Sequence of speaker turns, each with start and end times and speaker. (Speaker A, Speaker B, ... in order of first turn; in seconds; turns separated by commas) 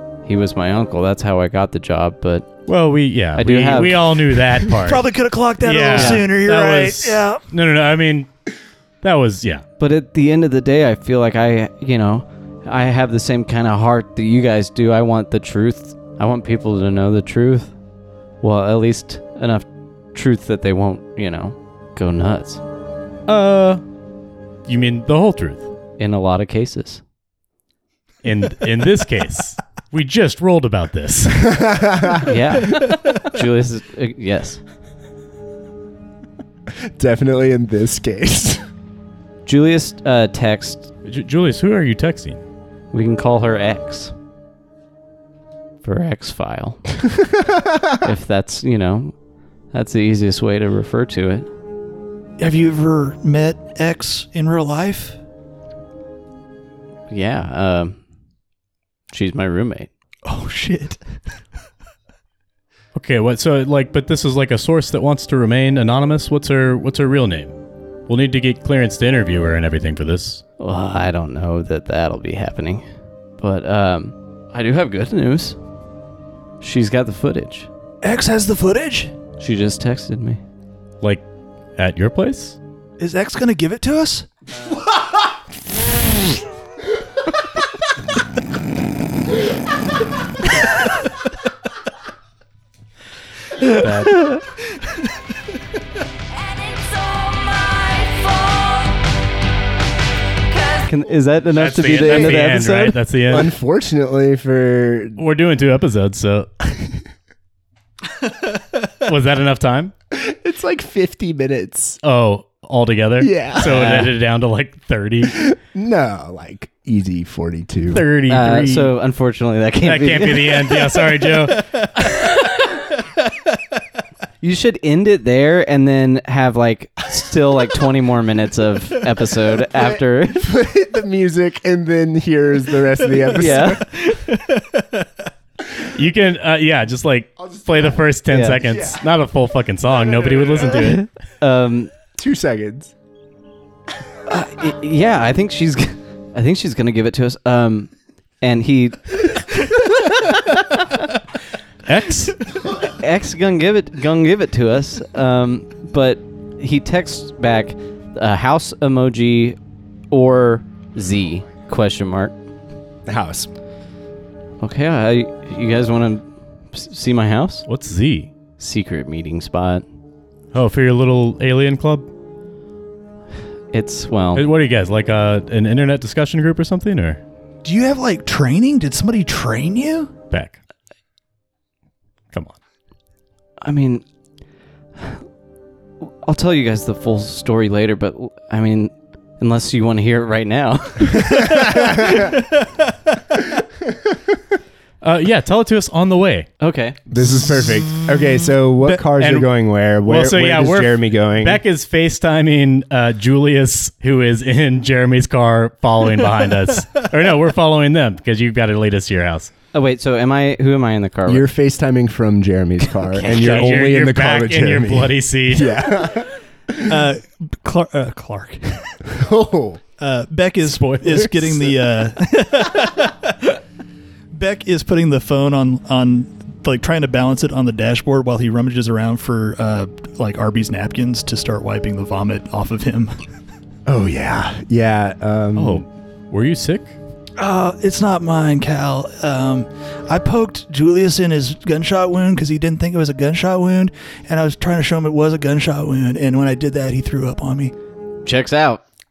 Speaker A: 0.2-2.5, Speaker B: 2.7-5.1, Speaker A: 3.4-4.4, Speaker C: 4.7-7.4, Speaker B: 5.6-8.3, Speaker A: 5.9-6.3, Speaker B: 9.0-9.6, Speaker A: 9.8-17.7, Speaker A: 18.4-22.6, Speaker B: 23.3-23.8, Speaker B: 24.6-25.6, Speaker A: 26.0-27.0, Speaker B: 28.2-31.6, Speaker D: 31.4-32.3, Speaker A: 32.2-34.6, Speaker D: 36.8-38.6, Speaker A: 39.4-40.9, Speaker B: 41.0-42.4, Speaker A: 42.9-44.1, Speaker A: 45.8-46.8, Speaker D: 47.5-47.8, Speaker A: 48.0-49.1, Speaker A: 49.7-51.5, Speaker C: 52.4-55.2, Speaker A: 57.1-58.0, Speaker A: 59.1-59.9, Speaker C: 60.2-61.0, Speaker B: 62.9-67.5, Speaker B: 68.1-70.4, Speaker A: 70.6-72.8, Speaker A: 73.4-75.6, Speaker A: 76.6-77.7, Speaker C: 78.0-79.1, Speaker A: 79.4-80.4, Speaker B: 81.8-82.6, Speaker C: 83.0-84.3, Speaker B: 93.7-94.3, Speaker E: 96.3-99.0, Speaker E: 100.5-101.0, Speaker A: 100.9-103.0, Speaker B: 101.5-103.5, Speaker D: 103.3-105.2, Speaker B: 105.2-106.8, Speaker B: 109.0-109.9, Speaker D: 110.1-112.0, Speaker B: 112.0-115.5, Speaker D: 113.2-114.1, Speaker A: 113.7-114.1, Speaker D: 115.2-118.1, Speaker B: 117.9-119.0, Speaker A: 118.3-120.8, Speaker B: 119.8-121.7, Speaker C: 121.6-121.8, Speaker A: 124.4-130.5, Speaker D: 129.7-134.0, Speaker A: 133.3-134.0, Speaker C: 134.0-135.1, Speaker B: 135.8-141.1, Speaker D: 137.4-138.0, Speaker A: 138.3-138.6, Speaker D: 138.6-139.0, Speaker A: 140.7-141.9, Speaker D: 142.1-142.9, Speaker A: 144.3-149.8, Speaker B: 151.8-152.5, Speaker A: 152.8-159.6, Speaker A: 160.1-162.3, Speaker D: 163.1-163.5, Speaker A: 164.6-167.7, Speaker B: 167.7-168.3, Speaker A: 168.6-169.8, Speaker B: 170.5-172.1, Speaker A: 173.7-174.4, Speaker B: 174.3-177.2, Speaker C: 177.6-180.1, Speaker B: 180.3-180.6, Speaker A: 183.6-184.0, Speaker A: 185.0-185.2, Speaker A: 186.2-192.2, Speaker B: 195.0-196.5, Speaker A: 196.6-197.0, Speaker D: 197.1-201.6, Speaker C: 197.3-198.3, Speaker B: 199.2-199.5, Speaker B: 200.0-209.5, Speaker A: 209.7-211.5, Speaker D: 211.2-216.9, Speaker A: 213.0-213.8, Speaker B: 213.3-215.8, Speaker C: 216.8-218.9, Speaker D: 219.1-219.8, Speaker C: 220.0-223.6, Speaker B: 220.6-221.3, Speaker C: 224.3-233.1, Speaker D: 233.8-235.8, Speaker B: 235.5-236.9, Speaker C: 237.4-247.7, Speaker A: 248.2-248.8